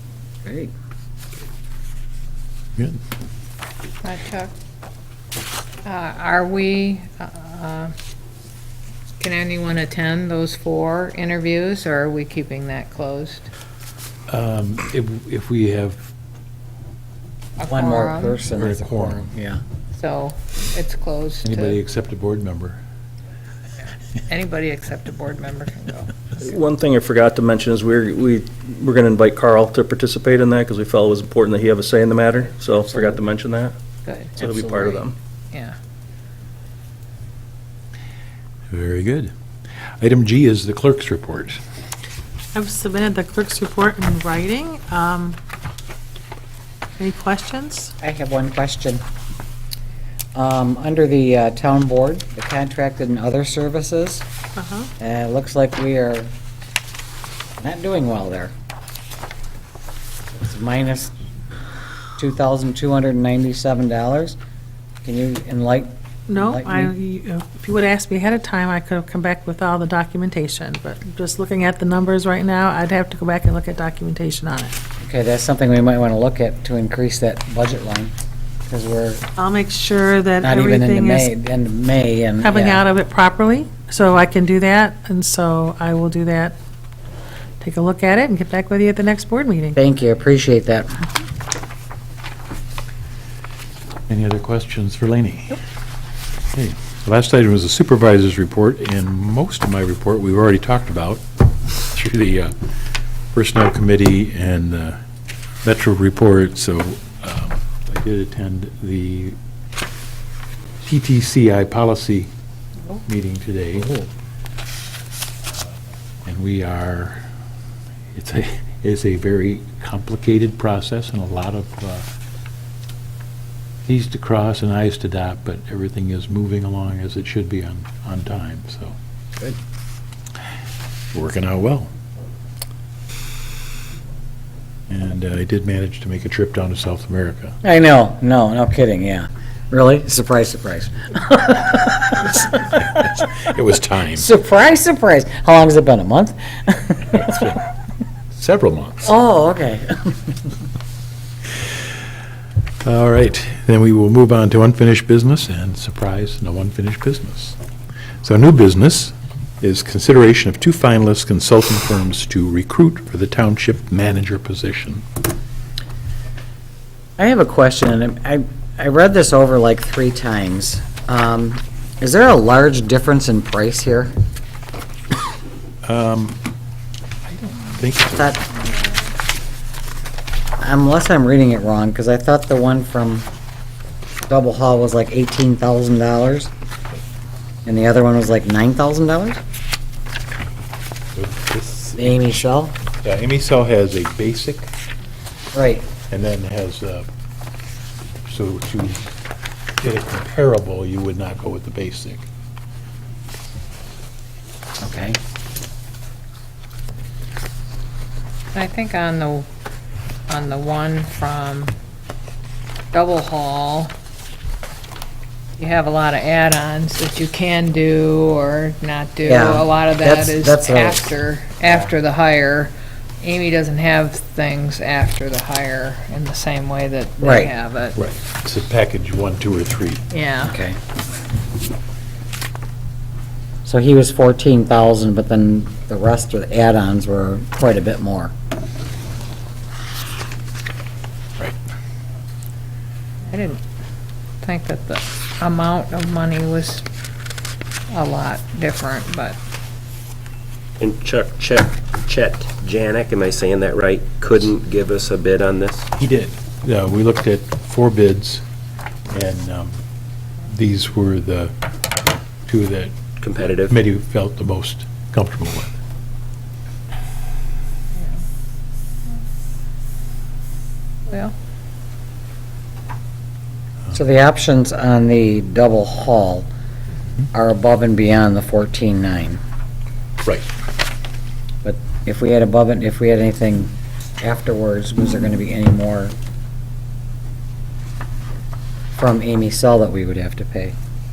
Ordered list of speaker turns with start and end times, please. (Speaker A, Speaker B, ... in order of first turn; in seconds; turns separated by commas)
Speaker A: 0.4-0.7, Speaker B: 4.0-4.5, Speaker B: 5.8-7.9, Speaker B: 9.2-13.5, Speaker C: 14.3-16.0, Speaker B: 17.6-18.4, Speaker A: 17.6-19.6, Speaker C: 18.5-19.2, Speaker B: 19.9-21.8, Speaker C: 21.4-22.8, Speaker B: 24.3-26.1, Speaker D: 26.4-33.8, Speaker B: 34.0-35.0, Speaker D: 34.4-35.1, Speaker C: 38.7-39.3, Speaker C: 40.0-41.6, Speaker E: 42.5-45.4, Speaker E: 47.0-47.9, Speaker A: 48.0-49.0, Speaker A: 50.3-54.2, Speaker E: 54.6-54.9, Speaker A: 55.0-56.3, Speaker A: 57.6-58.5, Speaker A: 60.3-61.1, Speaker A: 62.2-64.4, Speaker A: 65.0-66.9, Speaker E: 66.3-74.7, Speaker A: 75.0-78.1, Speaker A: 78.7-79.2, Speaker E: 79.4-81.3, Speaker A: 80.4-82.8, Speaker E: 82.4-86.5, Speaker E: 87.6-89.8, Speaker A: 89.7-90.9, Speaker C: 94.1-95.6, Speaker C: 96.5-101.2, Speaker C: 101.9-102.5, Speaker C: 103.3-105.0, Speaker C: 105.6-109.3, Speaker C: 110.8-112.3, Speaker C: 113.0-114.1, Speaker C: 116.2-117.2, Speaker C: 118.1-122.0, Speaker C: 123.9-128.9, Speaker C: 131.1-131.9, Speaker C: 134.9-137.5, Speaker A: 137.6-143.2, Speaker C: 142.8-144.2, Speaker A: 144.2-147.2, Speaker C: 147.1-147.6, Speaker C: 148.3-149.1, Speaker A: 149.0-150.3, Speaker C: 152.8-157.6, Speaker C: 158.2-165.0, Speaker A: 167.2-174.1, Speaker C: 175.8-176.4, Speaker C: 177.2-178.4, Speaker A: 178.1-178.4, Speaker A: 180.6-183.3, Speaker A: 184.3-186.5, Speaker A: 187.7-189.4, Speaker C: 191.2-192.2, Speaker A: 192.0-192.7, Speaker C: 193.0-194.7, Speaker A: 195.5-195.9, Speaker C: 196.1-197.1, Speaker C: 198.2-199.1, Speaker C: 199.8-202.2, Speaker A: 204.8-205.2, Speaker B: 208.5-209.5, Speaker B: 210.3-211.7, Speaker B: 212.9-213.9, Speaker B: 215.6-228.0, Speaker A: 219.2-221.9, Speaker A: 227.2-227.5, Speaker C: 228.0-230.0, Speaker B: 230.1-230.6, Speaker A: 230.4-230.8, Speaker A: 233.6-238.3, Speaker B: 243.3-243.6, Speaker B: 244.4-246.8, Speaker B: 247.9-249.4, Speaker F: 250.8-255.8, Speaker C: 255.9-258.4, Speaker C: 259.1-259.8, Speaker C: 260.4-261.5, Speaker C: 262.5-265.8, Speaker F: 263.2-263.7, Speaker B: 271.1-271.3, Speaker A: 273.9-276.5, Speaker A: 277.3-279.4, Speaker A: 281.6-286.1, Speaker A: 289.0-290.7